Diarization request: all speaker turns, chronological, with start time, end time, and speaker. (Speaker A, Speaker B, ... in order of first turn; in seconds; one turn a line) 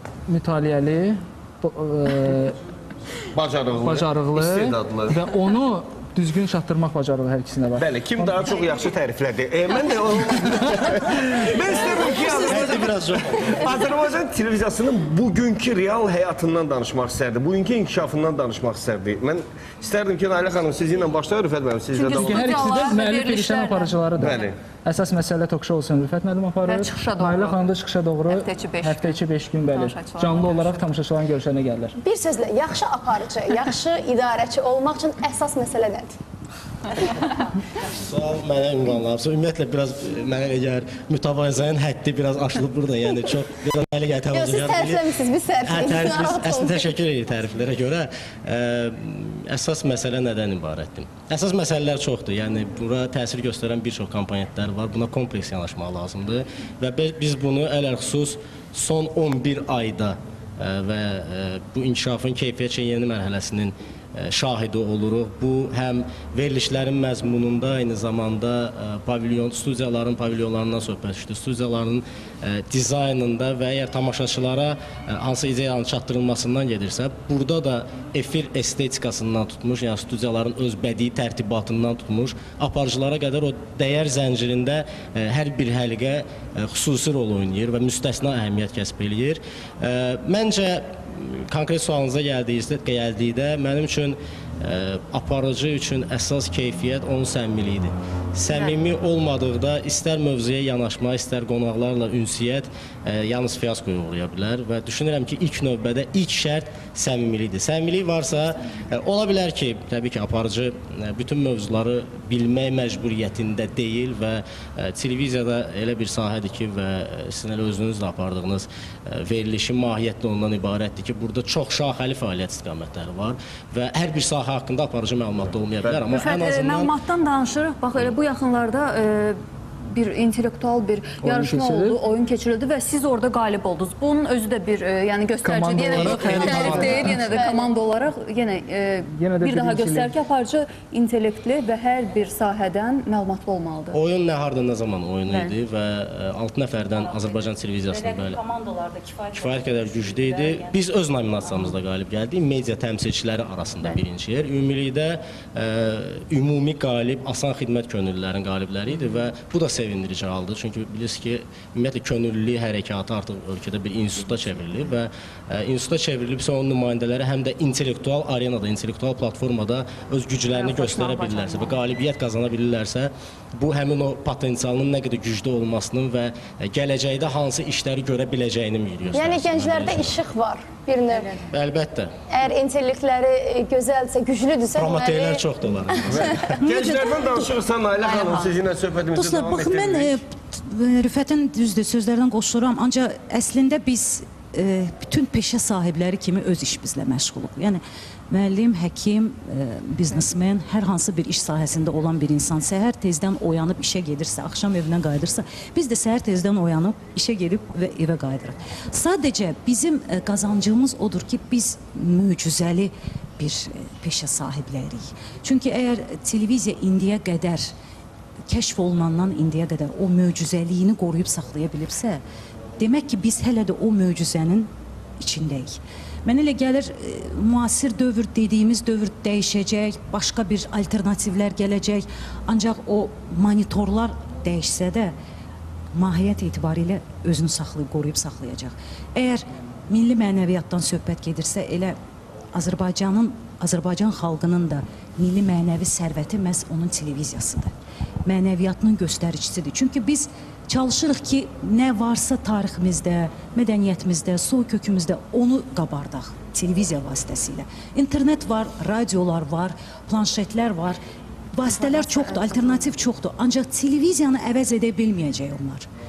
Speaker A: 0.3-2.6
Speaker B: 3.3-5.2
Speaker A: 3.7-8.5
Speaker B: 7.8-22.9
Speaker C: 11.6-13.8
Speaker D: 21.9-24.0
Speaker A: 22.1-31.9
Speaker B: 24.2-24.6
Speaker D: 26.6-27.6
Speaker D: 28.3-30.8
Speaker E: 32.0-36.1
Speaker C: 38.0-45.0
Speaker E: 44.3-46.9
Speaker C: 45.6-126.9
Speaker D: 126.1-129.3
Speaker D: 129.9-144.0
Speaker A: 131.2-132.0
Speaker A: 135.4-137.2
Speaker C: 136.0-137.2
Speaker E: 136.7-137.8
Speaker A: 139.1-140.1
Speaker C: 143.9-148.4
Speaker D: 145.2-145.5
Speaker F: 147.1-150.8
Speaker C: 149.3-180.2
Speaker D: 170.5-171.8
Speaker E: 179.1-181.4
Speaker C: 181.5-182.1
Speaker E: 182.3-185.4
Speaker C: 184.7-186.6
Speaker B: 186.1-190.2
Speaker D: 188.0-188.6
Speaker F: 189.1-217.7
Speaker F: 218.5-222.2
Speaker F: 222.8-224.7
Speaker F: 225.2-235.1
Speaker F: 235.9-241.9
Speaker F: 242.5-247.7
Speaker F: 248.2-261.0
Speaker F: 261.5-265.8
Speaker D: 261.8-262.7